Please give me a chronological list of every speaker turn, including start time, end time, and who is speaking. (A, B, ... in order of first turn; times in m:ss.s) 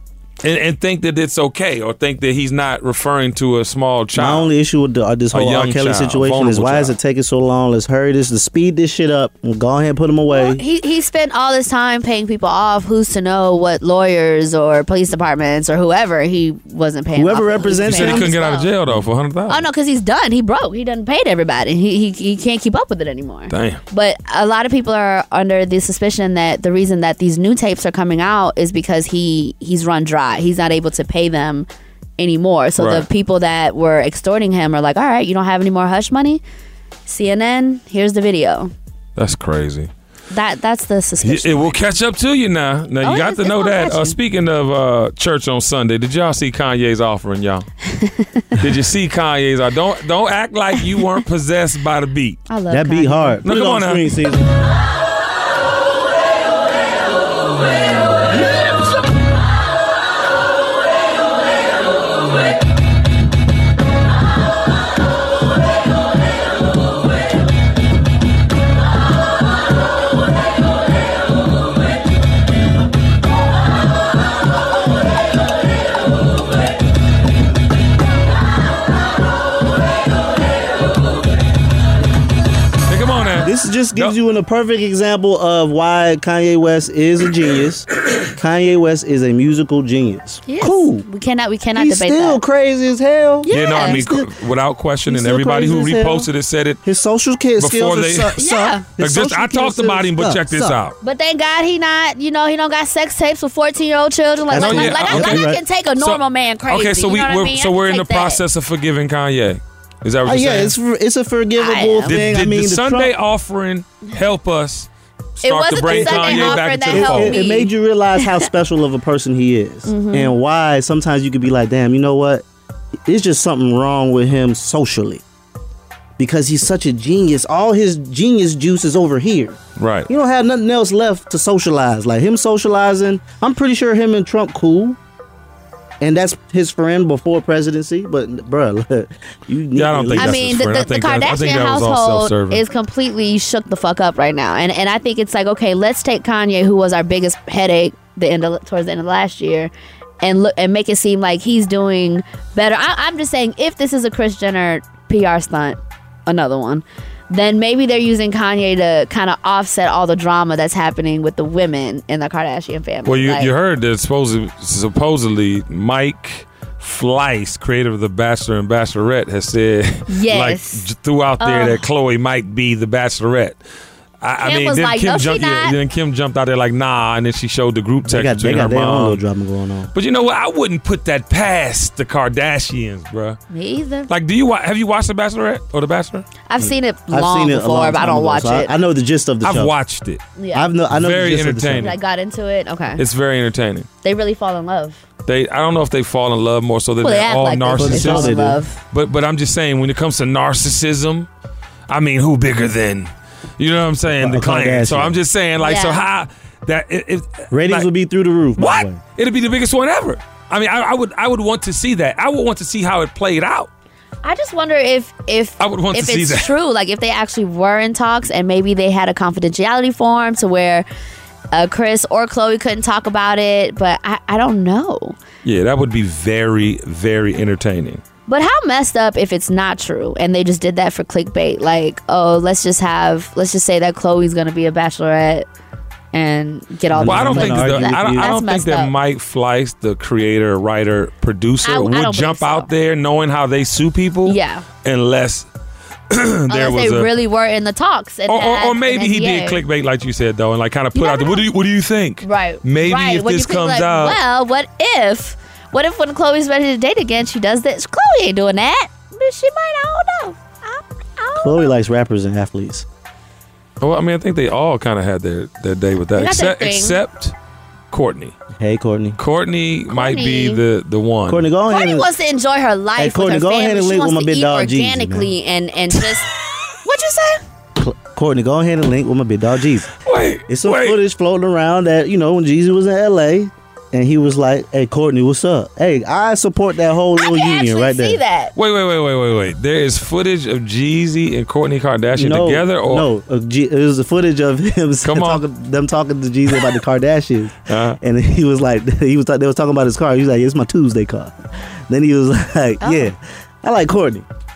0:00.4-0:04.5 A
0:04.2-0:10.6 B
0:05.3-0:07.0 A
0:10.3-0:18.7 C
0:17.1-0:18.3 B
0:17.8-0:19.6 A
0:19.5-0:31.7 C
0:23.5-0:23.8 A
0:32.2-0:36.4 C
0:32.8-0:33.0 A
0:37.0-0:38.7 C
0:39.2-0:39.9 A
0:40.3-0:41.8 C
0:41.2-0:47.7 A
0:43.0-0:44.2 C
0:48.0-0:48.5 C
0:48.6-0:52.4 A
0:52.5-0:53.4 C
0:52.7-0:54.5 B
0:53.4-0:54.3 A
1:22.9-1:24.2 A
1:23.4-1:31.0 B
1:30.5-1:32.4 C
1:31.8-1:34.3 B
1:33.4-1:34.0 C
1:33.5-1:36.8 A
1:35.1-1:36.3 B
1:36.8-1:40.8 B
1:37.6-1:38.4 A
1:38.4-1:38.8 C
1:39.0-1:41.0 A
1:41.0-1:48.4 C
1:44.5-1:45.6 B
1:44.5-1:45.4 A
1:46.0-1:50.7 A
1:50.2-1:53.1 B
1:51.6-1:52.2 C
1:52.0-1:54.9 A
1:55.4-1:57.4 A
1:55.4-1:58.4 C
1:55.9-2:02.4 B
1:59.9-2:00.3 C
2:03.0-2:05.2 B
2:06.2-2:09.6 B
2:09.8-2:10.1 A
2:10.1-2:15.0 B
2:16.0-2:20.4 B
2:19.7-2:22.6 A
2:20.2-2:29.7 C
2:30.2-2:43.5 C
2:43.0-2:53.6 A
2:50.1-2:50.9 C
2:51.4-2:51.8 C
2:54.2-2:59.2 A
2:54.4-2:55.8 C
2:58.0-2:59.9 B
2:59.9-3:03.4 A
3:03.5-3:04.1 C
3:04.1-3:06.3 A
3:06.5-3:08.7 C
3:06.6-3:09.7 B
3:09.4-3:10.2 A
3:10.4-3:10.7 C
3:10.5-3:11.9 B
3:10.9-3:11.9 A
3:11.8-3:13.0 C
3:13.0-3:13.9 A
3:14.0-3:15.0 C
3:15.2-3:18.4 A
3:17.0-3:18.8 C
3:17.8-3:18.6 B
3:18.9-3:21.3 A
3:21.9-3:27.9 A
3:24.1-3:25.2 B
3:25.6-3:26.0 C
3:27.5-3:29.0 B
3:28.6-3:33.7 A
3:34.2-3:40.8 C
3:35.6-3:36.5 A
3:41.5-3:45.2 C
3:45.4-3:48.0 A
3:48.3-3:55.5 C
3:56.1-3:58.9 C
3:56.9-3:58.3 B
3:57.0-4:05.5 A
4:01.6-4:02.7 C
4:04.2-4:04.6 C
4:06.1-4:07.1 A
4:06.5-4:09.6 C
4:08.3-4:14.2 A
4:10.9-4:11.4 C
4:12.2-4:21.7 C
4:21.4-4:22.8 B
4:23.8-4:27.3 A
4:26.2-4:27.0 C
4:27.9-4:28.4 A
4:28.6-4:29.2 B
4:29.2-4:31.4 A
4:29.9-4:30.6 C
4:31.3-4:32.1 B
4:31.7-4:36.3 C
4:33.0-4:35.3 B
4:36.8-4:37.4 C
4:37.8-4:39.9 B
4:40.0-4:41.0 A
4:40.5-4:48.2 B
4:47.2-4:48.5 C
4:48.6-4:53.1 A
4:52.2-5:01.4 B
4:55.0-4:55.4 A
4:57.7-4:58.0 A
5:01.9-5:04.3 B
5:02.8-5:03.1 C